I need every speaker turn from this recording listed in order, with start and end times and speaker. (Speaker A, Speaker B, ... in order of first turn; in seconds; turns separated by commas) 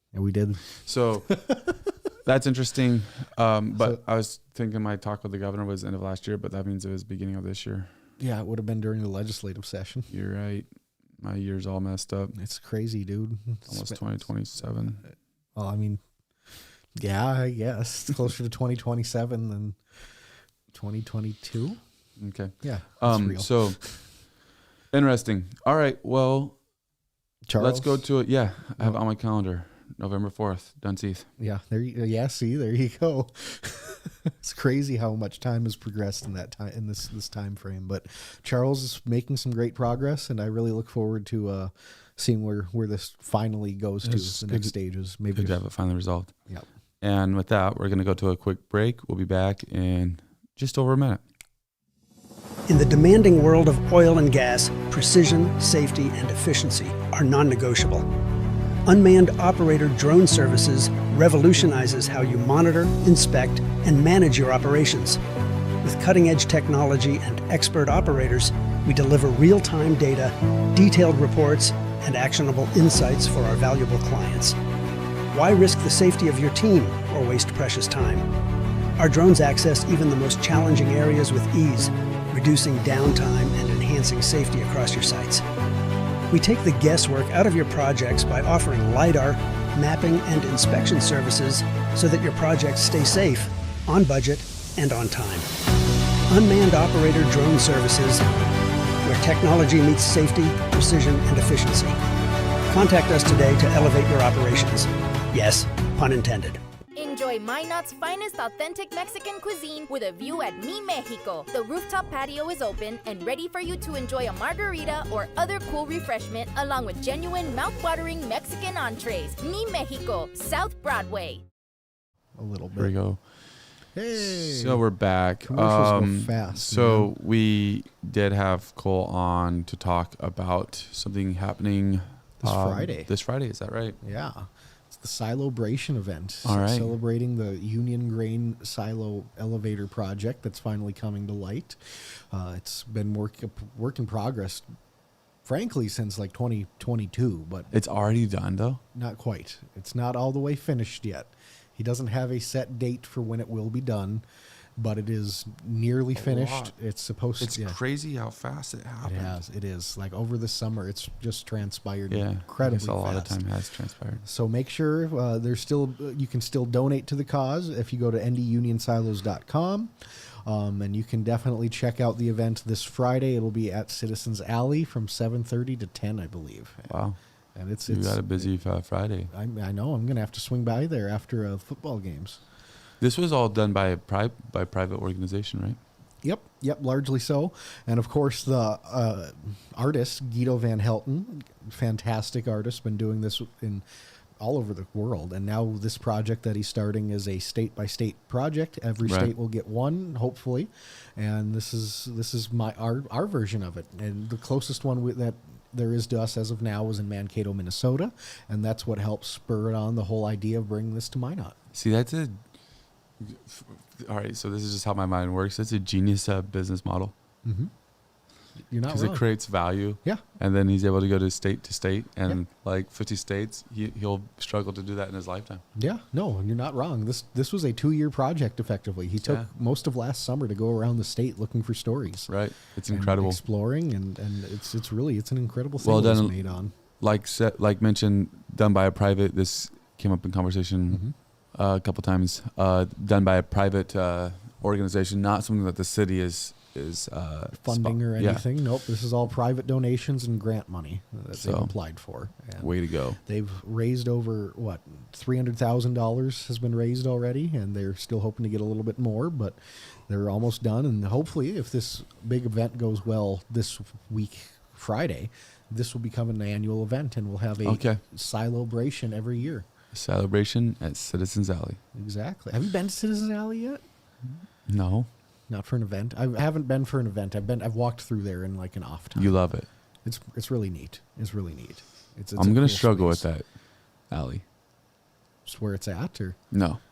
Speaker A: 0.1-0.7, Speaker B: 0.8-1.3, Speaker A: 1.2-1.7, Speaker B: 2.2-7.9, Speaker A: 8.2-10.1, Speaker B: 10.1-10.7, Speaker B: 11.2-12.3, Speaker A: 12.3-14.2, Speaker B: 13.7-15.0, Speaker A: 15.6-16.0, Speaker A: 17.0-19.8, Speaker A: 20.7-21.8, Speaker B: 22.2-23.8, Speaker A: 22.6-24.0, Speaker B: 24.9-26.6, Speaker A: 27.4-28.0, Speaker B: 27.6-31.3, Speaker A: 31.4-45.6, Speaker B: 44.0-44.7, Speaker B: 45.3-46.3, Speaker B: 47.0-51.2, Speaker C: 52.7-58.0, Speaker C: 58.9-65.2, Speaker C: 65.8-74.6, Speaker C: 75.3-78.2, Speaker C: 79.0-85.4, Speaker C: 86.3-95.5, Speaker C: 96.3-98.3, Speaker C: 99.0-102.0, Speaker C: 102.7-106.6, Speaker D: 107.0-121.4, Speaker A: 122.4-122.9, Speaker B: 122.8-123.2, Speaker A: 123.9-124.8, Speaker B: 124.1-134.0, Speaker A: 125.4-127.1, Speaker A: 132.4-133.1, Speaker A: 134.0-144.7, Speaker B: 136.4-136.9, Speaker A: 145.4-147.7, Speaker B: 147.7-148.8, Speaker A: 148.9-154.2, Speaker A: 154.8-157.8, Speaker B: 156.2-156.7, Speaker B: 157.4-159.4, Speaker A: 159.0-163.4, Speaker B: 162.1-164.2, Speaker A: 164.2-169.9, Speaker A: 170.4-176.9, Speaker B: 176.9-177.2, Speaker A: 177.6-178.5, Speaker B: 177.9-179.3, Speaker A: 179.3-182.4, Speaker B: 183.0-185.8, Speaker A: 186.2-193.8, Speaker A: 194.4-211.6, Speaker B: 199.0-199.3, Speaker B: 211.7-212.4, Speaker B: 213.2-217.1, Speaker A: 217.4-217.7, Speaker A: 218.7-219.3, Speaker B: 218.9-225.6, Speaker A: 225.8-232.3, Speaker B: 229.2-229.5, Speaker B: 232.3-233.4, Speaker A: 232.9-236.7, Speaker B: 235.8-236.4, Speaker B: 237.0-241.0, Speaker A: 240.9-241.1, Speaker B: 241.5-248.4, Speaker A: 247.6-269.7, Speaker B: 251.3-251.7, Speaker B: 252.6-253.2, Speaker B: 267.6-268.0, Speaker B: 269.9-271.8, Speaker A: 271.9-273.8, Speaker B: 274.7-275.1, Speaker A: 275.5-279.4, Speaker B: 279.1-279.7, Speaker A: 280.0-283.3, Speaker B: 282.4-283.4, Speaker B: 284.1-284.4, Speaker A: 285.4-286.4, Speaker B: 286.5-286.8